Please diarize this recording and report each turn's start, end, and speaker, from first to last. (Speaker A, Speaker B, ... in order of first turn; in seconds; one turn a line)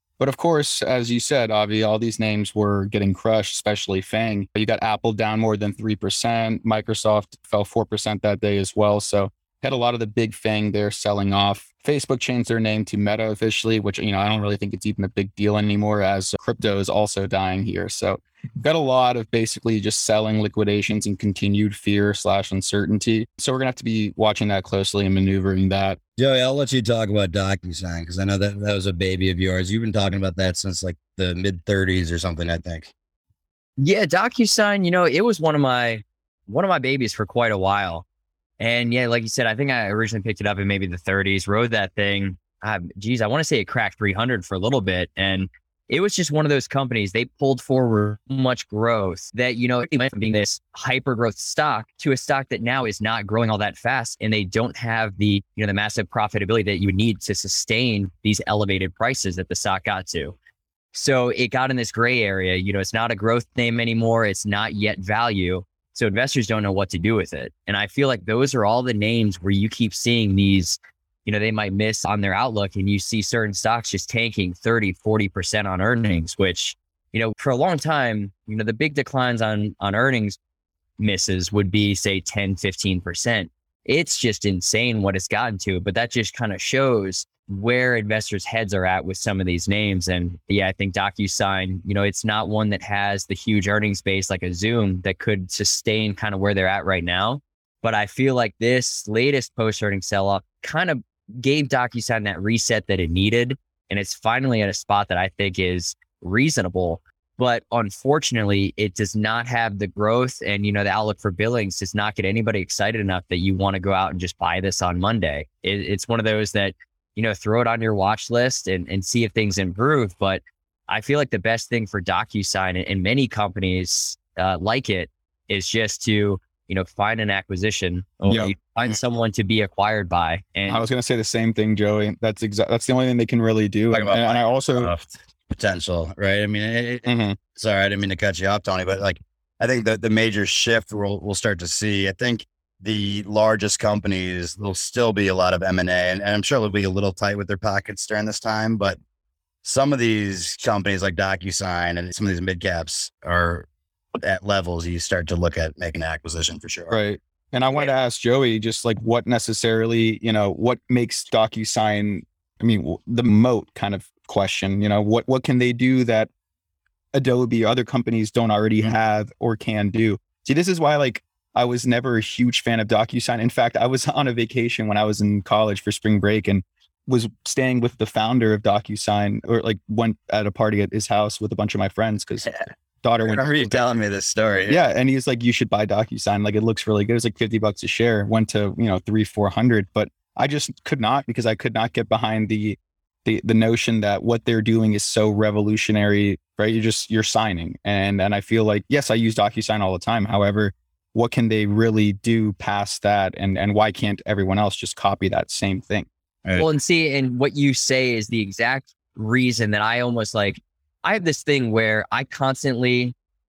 Speaker A: 0.2-26.0
Speaker B: 26.2-32.9
Speaker C: 33.8-38.0
Speaker C: 38.6-60.4
Speaker C: 60.9-80.4
Speaker C: 81.0-130.8
Speaker A: 128.3-128.5
Speaker A: 130.7-134.9
Speaker B: 133.9-149.0
Speaker A: 137.1-137.4
Speaker B: 149.6-153.7
Speaker B: 154.2-157.0
Speaker A: 156.9-166.3
Speaker A: 167.1-183.8
Speaker B: 183.2-184.8
Speaker A: 184.7-206.1
Speaker C: 206.6-213.1